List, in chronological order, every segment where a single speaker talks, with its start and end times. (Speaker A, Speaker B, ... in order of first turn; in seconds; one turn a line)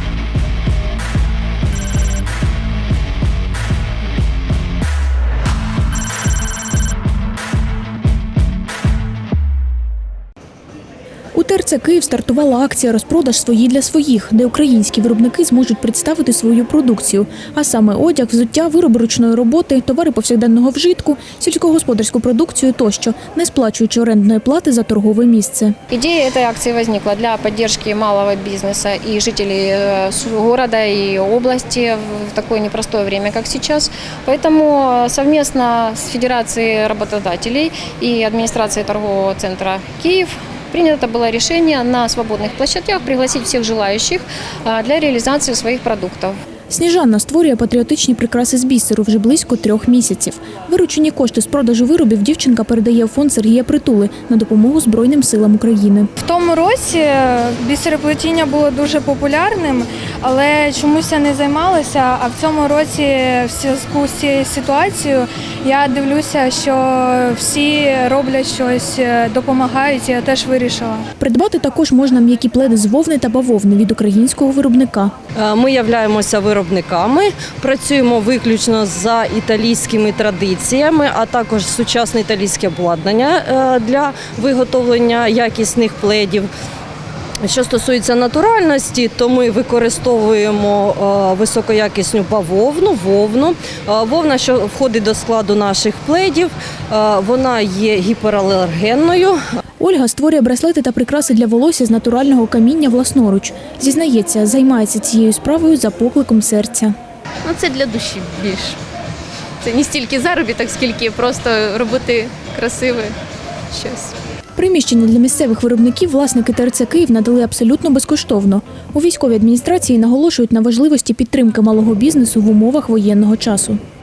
Speaker A: 11.3-25.8
Speaker B: 25.9-46.4
Speaker A: 46.7-56.1
Speaker C: 56.2-71.1
Speaker A: 71.2-75.1
Speaker D: 75.3-86.5
Speaker D: 87.4-99.4
Speaker A: 99.8-106.9
Speaker E: 107.4-108.8
Speaker E: 109.6-113.1
Speaker E: 113.7-114.1
Speaker A: 114.5-123.8